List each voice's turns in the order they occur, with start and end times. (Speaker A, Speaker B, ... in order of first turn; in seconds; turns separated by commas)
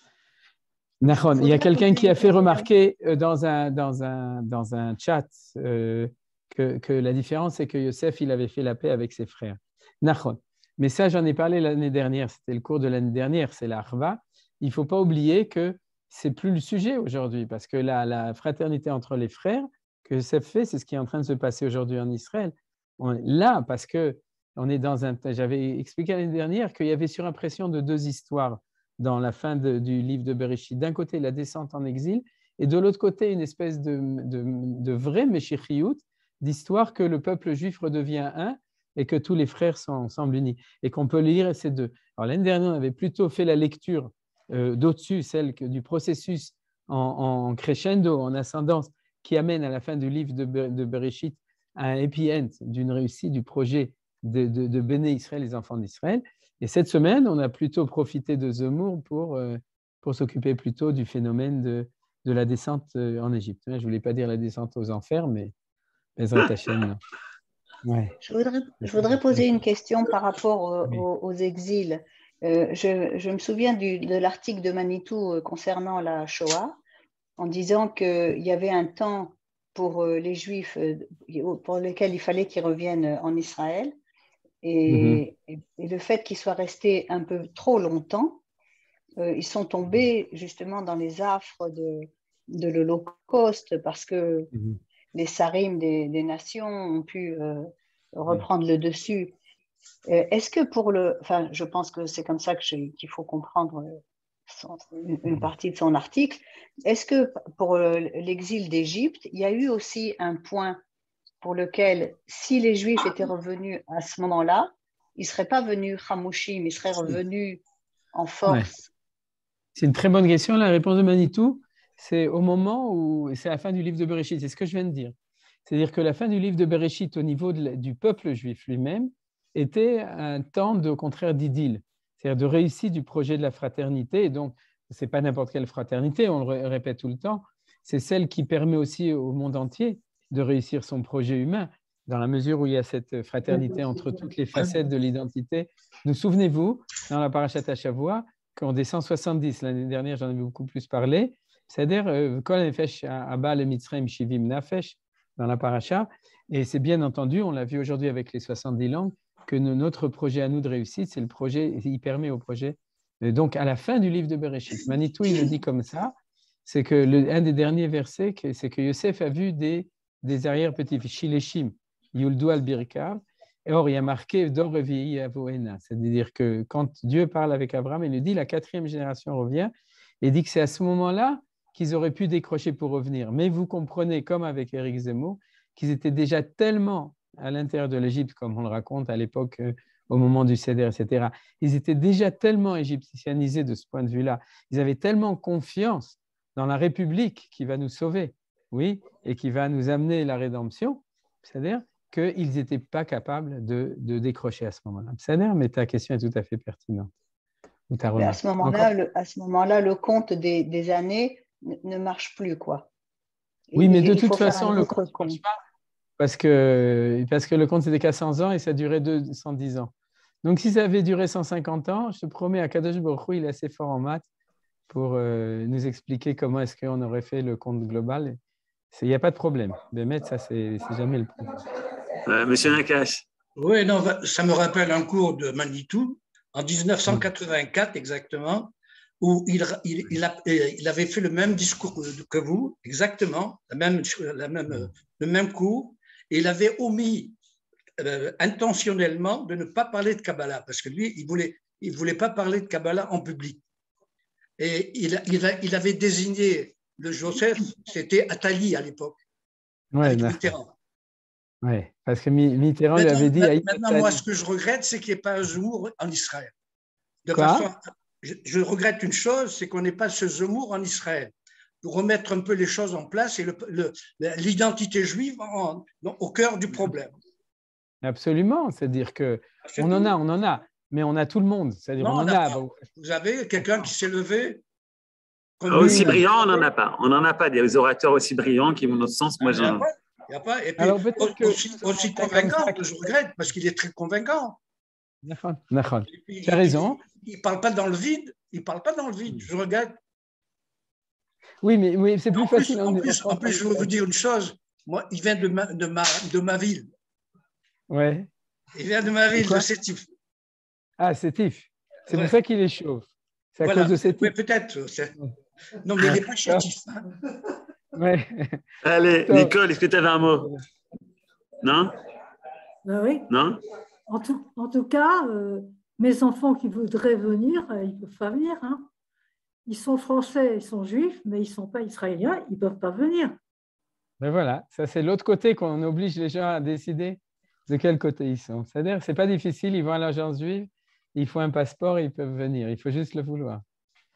Speaker A: 1.0-65.5, Speaker B: 1.1-2.7, Speaker A: 66.2-67.0, Speaker A: 67.8-68.2, Speaker B: 68.2-76.8, Speaker A: 68.8-69.5, Speaker B: 77.4-83.9, Speaker B: 84.6-88.4, Speaker A: 84.9-85.2, Speaker B: 89.2-94.5, Speaker A: 94.5-94.8, Speaker B: 95.1-99.3, Speaker B: 100.1-110.8, Speaker B: 111.4-117.6, Speaker B: 118.1-118.9, Speaker A: 119.8-125.1, Speaker A: 125.7-166.1, Speaker A: 166.7-207.1, Speaker A: 207.9-208.9, Speaker B: 208.2-212.9, Speaker B: 213.7-215.4, Speaker A: 213.8-215.6, Speaker A: 216.2-219.9, Speaker A: 220.4-224.3, Speaker A: 224.9-228.4, Speaker A: 228.9-231.6, Speaker C: 232.3-233.2, Speaker D: 233.6-247.3, Speaker D: 248.0-253.6, Speaker D: 254.6-259.2, Speaker A: 259.9-260.5, Speaker D: 260.0-260.7, Speaker A: 261.6-264.2, Speaker D: 262.9-266.5, Speaker D: 267.2-277.1, Speaker A: 267.3-267.7, Speaker A: 278.0-282.8, Speaker D: 279.7-280.1, Speaker D: 282.0-284.6, Speaker D: 285.6-286.3, Speaker C: 285.7-289.9, Speaker A: 285.7-286.2, Speaker D: 289.5-294.6, Speaker A: 290.8-292.8, Speaker A: 295.2-297.0, Speaker D: 296.1-300.0, Speaker A: 301.6-303.9, Speaker D: 302.3-306.9, Speaker A: 307.9-308.3, Speaker D: 308.8-310.1, Speaker A: 309.4-309.6, Speaker A: 311.0-314.3, Speaker D: 313.6-315.1, Speaker D: 315.8-317.1, Speaker A: 316.0-316.7, Speaker A: 317.9-318.6, Speaker C: 318.8-320.5, Speaker A: 319.3-319.6, Speaker C: 321.6-321.9, Speaker E: 322.9-323.3, Speaker C: 323.3-323.6, Speaker E: 324.1-328.9, Speaker E: 329.7-333.4, Speaker A: 334.2-343.6